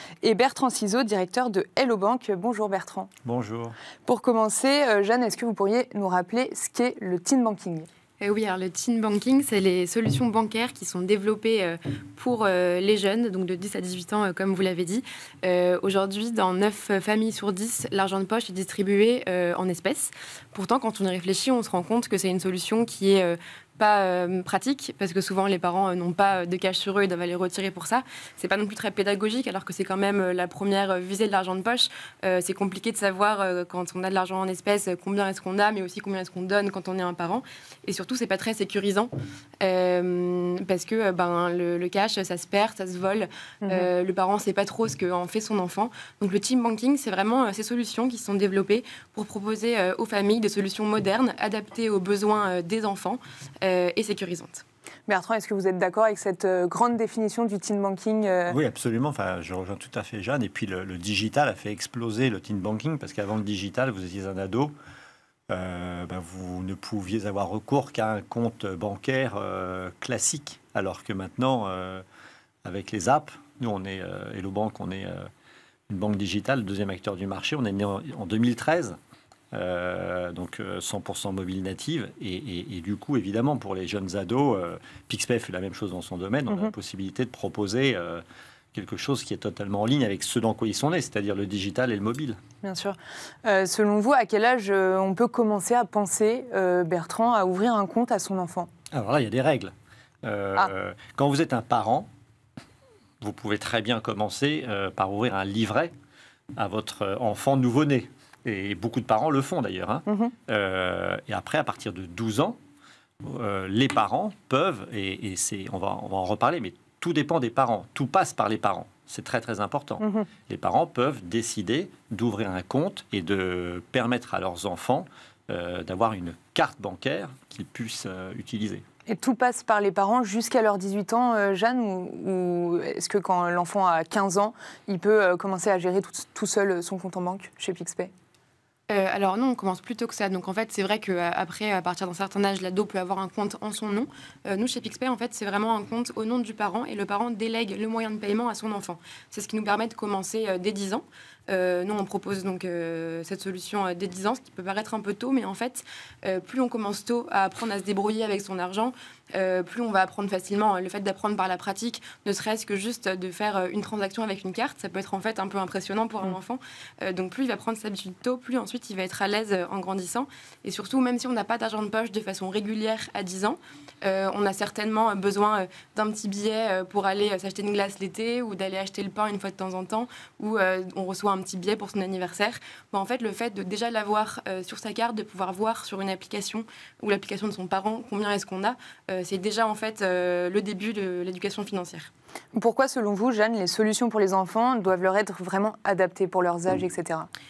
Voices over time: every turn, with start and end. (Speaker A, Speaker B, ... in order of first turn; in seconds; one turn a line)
Speaker A: 0.2-3.1
Speaker B: 3.2-3.8
Speaker A: 4.1-7.9
Speaker C: 8.2-39.1
Speaker C: 39.6-54.6
Speaker A: 55.1-58.6
Speaker B: 58.5-64.7
Speaker B: 65.5-72.0
Speaker B: 72.6-75.3
Speaker B: 75.9-79.0
Speaker B: 79.5-88.2
Speaker B: 88.7-92.4
Speaker A: 92.6-98.7
Speaker B: 98.9-99.7
Speaker B: 100.2-102.1
Speaker B: 103.2-105.9
Speaker B: 106.6-112.6
Speaker A: 110.1-110.3
Speaker B: 113.2-128.8
Speaker A: 120.0-120.3
Speaker A: 129.1-138.1
Speaker C: 138.9-192.1
Speaker A: 192.6-197.3